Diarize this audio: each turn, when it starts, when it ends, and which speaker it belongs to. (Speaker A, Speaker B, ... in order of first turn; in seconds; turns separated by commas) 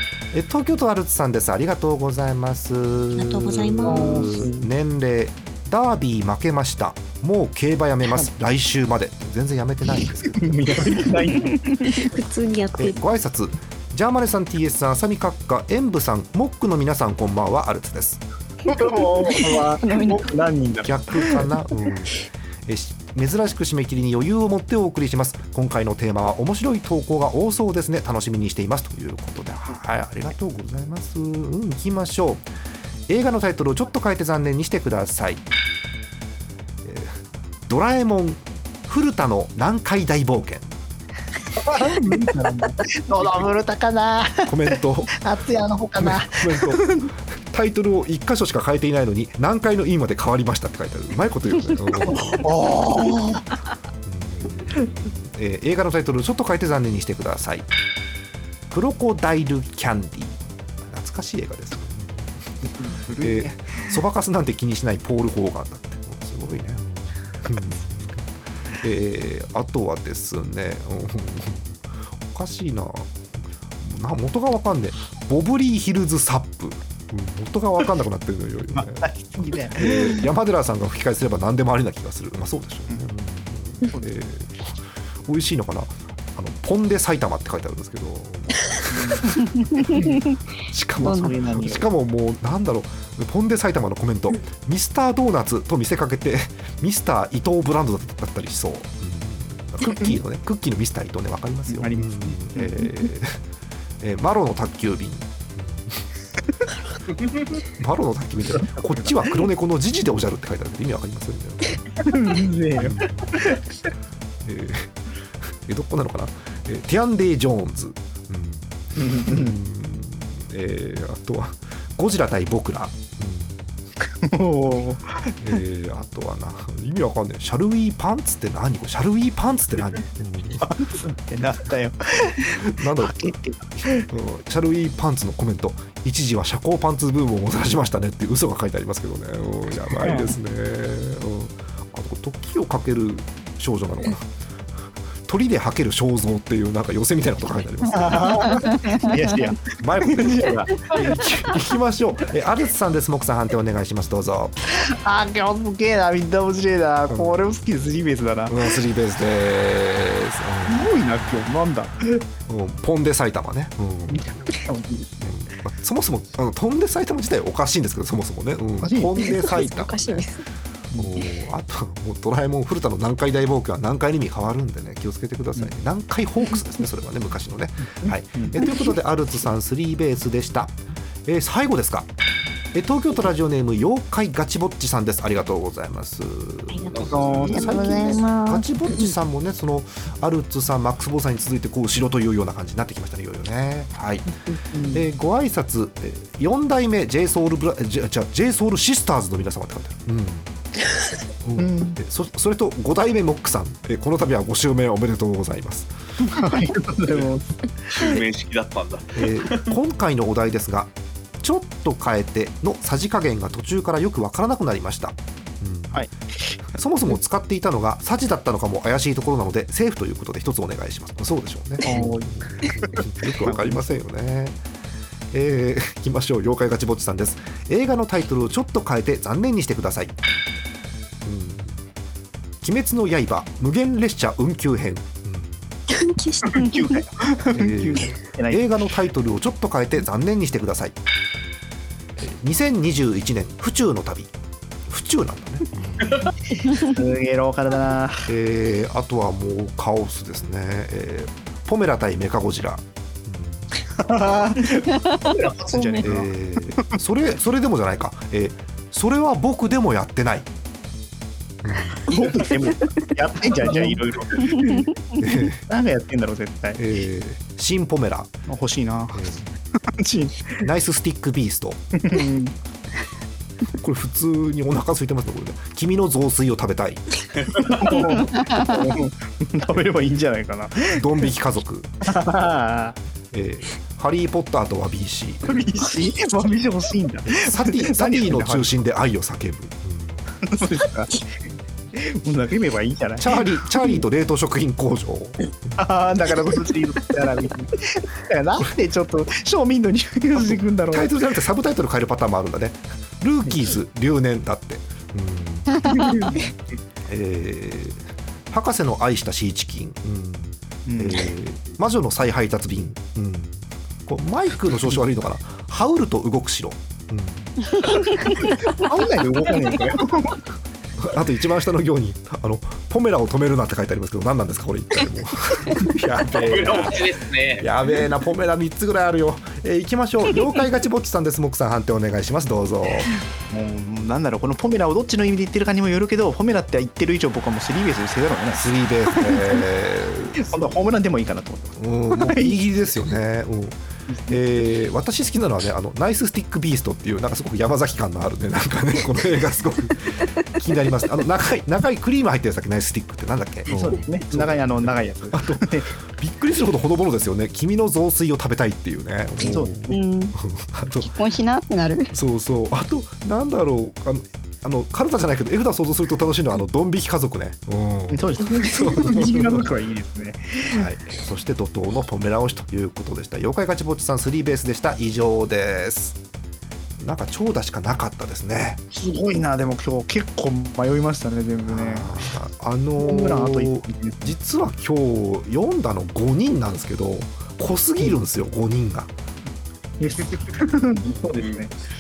Speaker A: 0.3-11.1, Speaker B: 3.1-4.4, Speaker C: 3.8-4.7, Speaker C: 10.4-12.2, Speaker B: 12.0-13.0, Speaker A: 12.7-18.2, Speaker C: 18.7-21.4, Speaker D: 18.7-20.3, Speaker A: 20.8-32.5, Speaker A: 33.1-35.4, Speaker A: 36.8-40.7, Speaker C: 41.6-47.1, Speaker A: 44.5-45.2, Speaker A: 46.0-52.5, Speaker C: 52.4-53.4, Speaker A: 54.0-57.7, Speaker A: 58.7-73.3, Speaker C: 62.6-63.9, Speaker A: 73.8-89.4, Speaker C: 78.7-80.2, Speaker C: 88.9-90.2, Speaker D: 89.8-90.1, Speaker A: 90.7-103.4, Speaker C: 91.0-91.9, Speaker D: 91.0-91.3, Speaker C: 101.7-102.8, Speaker A: 104.0-106.0, Speaker A: 107.8-111.8, Speaker C: 112.0-113.6, Speaker A: 112.8-113.5, Speaker A: 114.5-123.6, Speaker C: 119.0-119.5, Speaker C: 124.2-125.3, Speaker A: 125.4-130.7, Speaker C: 130.6-134.1, Speaker A: 132.5-144.3, Speaker C: 139.9-140.3, Speaker A: 145.3-148.4, Speaker C: 147.9-151.2, Speaker D: 148.9-149.3, Speaker A: 149.8-154.5, Speaker C: 154.7-158.6, Speaker A: 157.1-157.7, Speaker A: 158.5-161.5, Speaker C: 160.7-162.2, Speaker A: 162.5-164.3, Speaker C: 164.1-165.2, Speaker A: 165.2-170.3, Speaker C: 168.8-169.3, Speaker B: 169.2-170.4, Speaker A: 170.9-182.1, Speaker C: 178.0-178.6, Speaker A: 182.7-194.3, Speaker B: 186.7-188.2, Speaker E: 186.9-187.6, Speaker D: 187.4-188.7, Speaker B: 188.9-189.1, Speaker C: 194.7-195.1, Speaker A: 194.9-200.5, Speaker A: 201.4-205.9, Speaker C: 201.6-202.0, Speaker C: 206.3-208.1, Speaker E: 207.9-209.7, Speaker A: 209.2-210.9, Speaker A: 211.4-216.1, Speaker C: 215.9-216.3, Speaker A: 216.6-224.6, Speaker C: 221.8-223.8, Speaker A: 225.3-230.1, Speaker A: 231.2-231.8, Speaker A: 232.6-235.7, Speaker B: 235.9-237.0, Speaker C: 236.5-238.7, Speaker A: 237.5-240.9, Speaker A: 242.2-244.3, Speaker A: 244.9-246.2, Speaker C: 246.6-248.3, Speaker A: 248.3-253.7, Speaker C: 254.0-256.3, Speaker B: 255.8-256.0, Speaker A: 256.0-260.5, Speaker A: 261.6-262.0, Speaker C: 262.1-264.9, Speaker A: 265.2-265.6, Speaker C: 265.7-266.8, Speaker A: 266.8-268.4, Speaker C: 268.5-269.3, Speaker A: 269.1-269.6, Speaker C: 270.0-270.5, Speaker A: 270.6-271.8, Speaker C: 271.9-272.5, Speaker A: 273.8-277.1, Speaker C: 277.7-281.0, Speaker A: 281.0-281.9, Speaker C: 282.0-283.0, Speaker A: 283.3-285.6, Speaker C: 285.5-288.7, Speaker A: 287.3-290.3, Speaker C: 290.4-291.2, Speaker C: 291.9-293.3, Speaker A: 293.2-295.8, Speaker C: 295.8-301.2, Speaker A: 300.4-305.7, Speaker C: 303.5-303.7, Speaker D: 305.7-306.3, Speaker C: 305.9-306.5, Speaker A: 307.1-317.6, Speaker C: 310.9-311.3, Speaker C: 318.1-320.4, Speaker A: 321.0-333.1, Speaker E: 326.4-327.7, Speaker C: 333.1-339.6, Speaker A: 338.6-340.5, Speaker C: 340.4-342.6, Speaker A: 341.8-361.1, Speaker C: 344.1-344.5, Speaker C: 353.7-355.9, Speaker C: 359.4-359.8, Speaker D: 359.9-360.4, Speaker D: 361.0-362.1, Speaker A: 362.1-369.6, Speaker C: 368.1-370.8, Speaker A: 370.7-376.2, Speaker A: 377.0-378.8, Speaker C: 378.9-382.2, Speaker A: 381.7-389.1, Speaker C: 383.0-384.3, Speaker C: 390.0-391.7, Speaker E: 391.3-391.8